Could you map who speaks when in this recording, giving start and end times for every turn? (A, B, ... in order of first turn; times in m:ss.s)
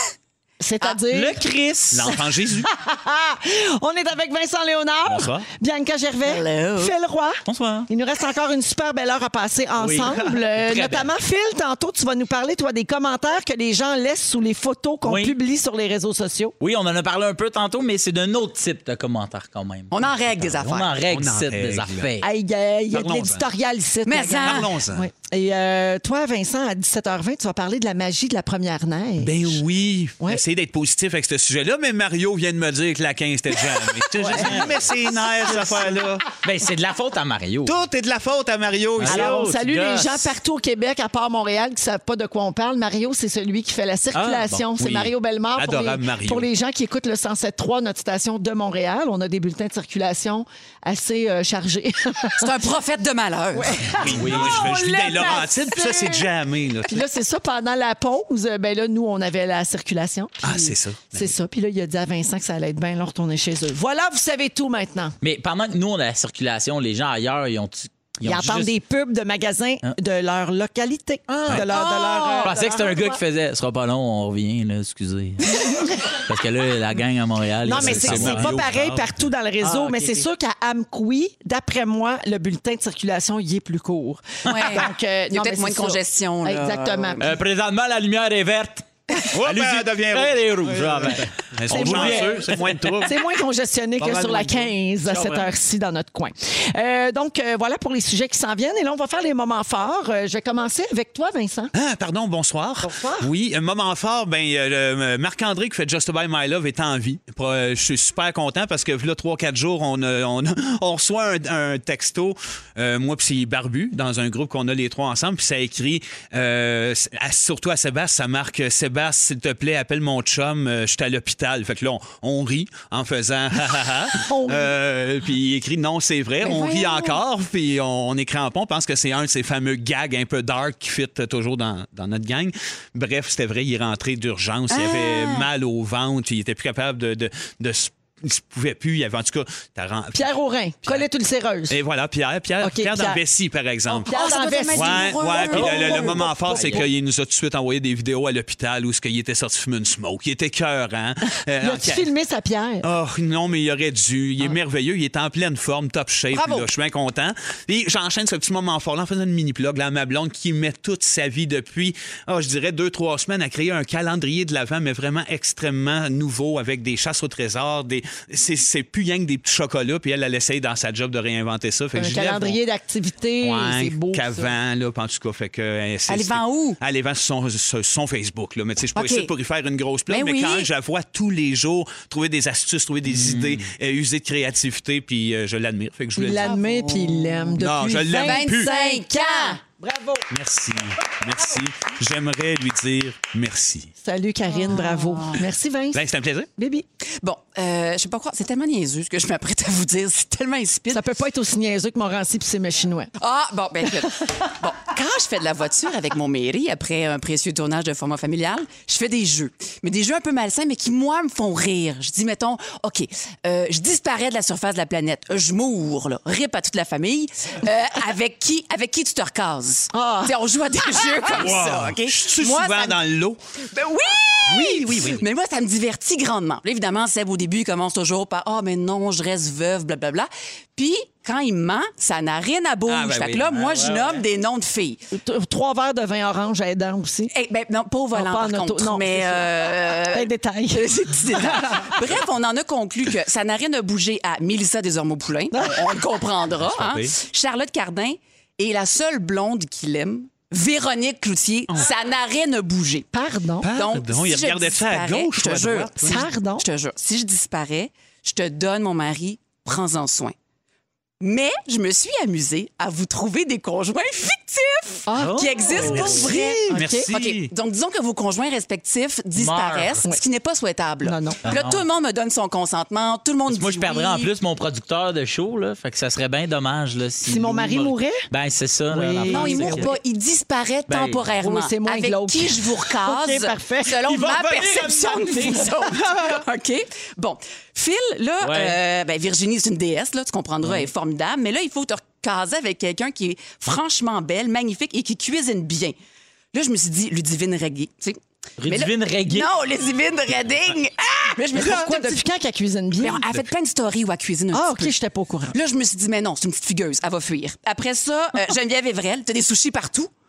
0:00.6-0:01.4 A
0:01.1-0:02.1 B
0:01.9-0:02.7 C
0:02.1-0:16.6 A
0:05.1-0:05.4 C
0:06.2-0:06.9 D
0:07.5-0:07.9 B
0:09.8-0:11.1 B
0:15.0-0:15.4 B
0:16.6-0:22.3 B
0:19.9-0:20.9 D
0:21.0-0:22.1 C
0:22.2-0:29.6 A
0:22.9-0:23.4 C
0:24.1-0:24.7 D
0:24.4-0:25.1 C
0:29.2-0:36.3 C
0:34.1-0:36.0 A
0:34.2-0:34.8 B
0:36.4-0:37.8 B
0:37.6-0:39.4 C
0:39.0-0:40.3 B
0:39.0-0:52.5 A
0:44.1-0:44.7 B
0:44.8-0:46.5 C
0:52.4-0:53.8 D
0:53.5-0:56.3 A
0:54.0-0:57.0 C
0:54.1-0:54.7 B
0:56.8-1:05.2 A
1:00.4-1:01.3 C
1:05.2-1:08.7 B
1:08.2-1:13.2 A
1:11.3-1:11.7 B
1:11.7-1:12.5 D
1:12.4-1:18.6 B
1:15.5-1:16.2 A
1:17.6-1:27.3 A
1:17.7-1:19.2 C
1:19.6-1:20.3 B
1:24.5-1:27.3 D
1:27.2-1:33.0 B
1:29.3-1:33.2 C
1:31.7-1:32.5 A
1:33.0-1:41.7 A
1:34.0-1:34.7 C
1:35.1-1:35.5 B
1:41.7-2:20.3 C
1:42.8-1:43.3 A
2:04.2-2:04.8 A
2:06.4-2:07.2 D
2:14.7-2:15.5 D
2:20.1-2:21.8 A
2:21.7-2:24.1 C
2:22.6-2:23.2 A
2:23.9-2:26.9 A
2:24.0-2:26.3 D
2:24.7-2:32.1 C
2:26.4-2:26.8 B
2:31.6-2:32.9 A
2:32.8-2:52.6 C
2:36.3-2:36.7 D
2:51.9-2:54.5 A
2:53.4-3:06.5 C
2:56.1-2:56.8 D
2:59.0-2:59.3 D
3:00.1-3:00.7 D
3:03.1-3:03.6 B
3:06.2-3:10.3 A
3:06.4-3:07.4 D
3:07.6-3:08.7 C
3:08.1-3:09.6 D
3:10.3-3:13.9 C
3:14.0-3:16.0 A
3:14.6-3:15.4 D
3:15.9-3:16.5 C
3:16.6-3:16.9 A
3:17.2-3:21.1 D
3:20.9-3:23.1 A
3:23.2-3:43.0 D
3:39.9-3:40.4 A
3:41.3-3:43.4 C
3:43.7-3:55.0 D
3:44.5-3:45.2 C
3:52.9-3:54.0 C
3:53.6-3:54.1 B
3:55.1-3:57.3 A
3:57.3-4:13.1 D
3:58.1-4:02.0 A
4:05.5-4:05.8 A
4:06.6-4:07.1 C
4:13.1-4:13.7 A
4:13.6-4:16.2 C
4:13.7-4:20.3 D
4:16.0-4:16.6 A
4:21.2-4:34.3 D
4:25.1-4:27.1 A
4:25.1-4:26.3 B
4:25.8-4:27.5 C
4:29.4-4:30.0 B
4:31.0-4:31.4 A
4:31.5-4:31.8 B
4:33.5-4:39.9 B
4:37.2-4:38.2 A
4:38.9-4:40.0 A
4:39.3-4:56.0 D
4:40.9-4:41.2 B
4:41.4-4:44.2 A
4:44.1-4:45.7 B
4:48.4-4:48.8 B
4:50.6-4:50.9 B
4:56.5-5:02.2 D
4:58.6-4:59.5 B
5:01.5-5:03.2 A
5:03.0-5:04.9 D
5:04.5-5:05.6 A
5:05.5-5:10.1 D